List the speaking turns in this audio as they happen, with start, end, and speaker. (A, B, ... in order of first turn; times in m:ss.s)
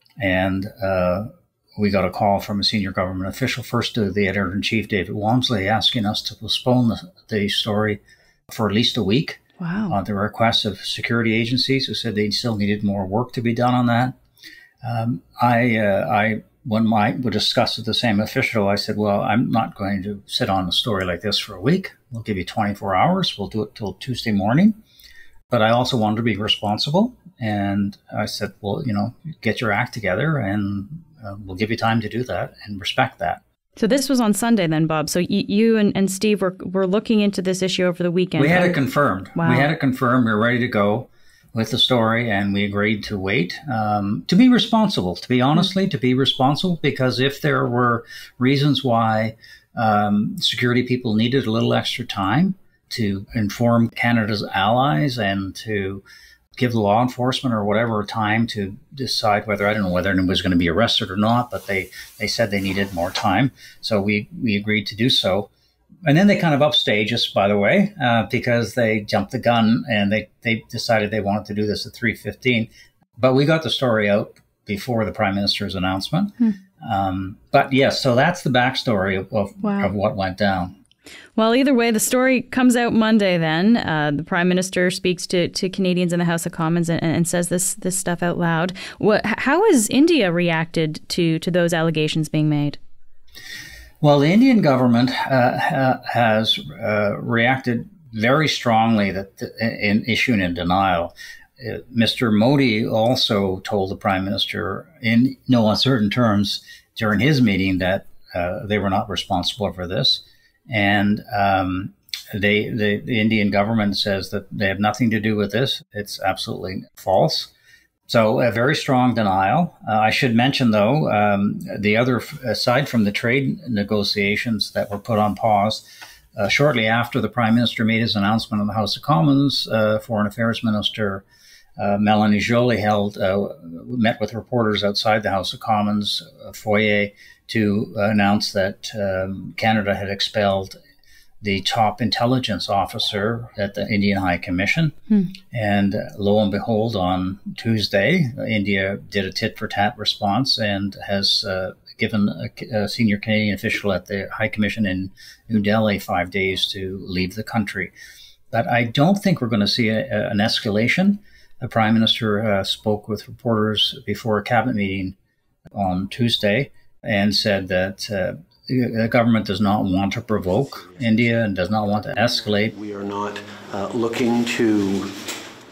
0:00.2-0:14.1 A
0:09.6-0:10.0 B
0:14.8-0:24.8 A
0:25.5-0:33.4 A
0:33.8-0:38.8 B
0:38.4-0:56.0 A
0:39.4-0:39.7 B
0:56.6-1:05.5 A
1:06.0-1:20.8 A
1:19.6-1:19.9 B
1:21.4-1:32.8 B
1:34.0-1:57.5 A
1:58.1-2:11.2 A
2:11.8-2:20.8 A
2:21.4-2:24.9 A
2:25.5-2:37.9 A
2:38.5-2:45.2 A
2:45.7-2:52.7 A
2:50.5-2:55.1 C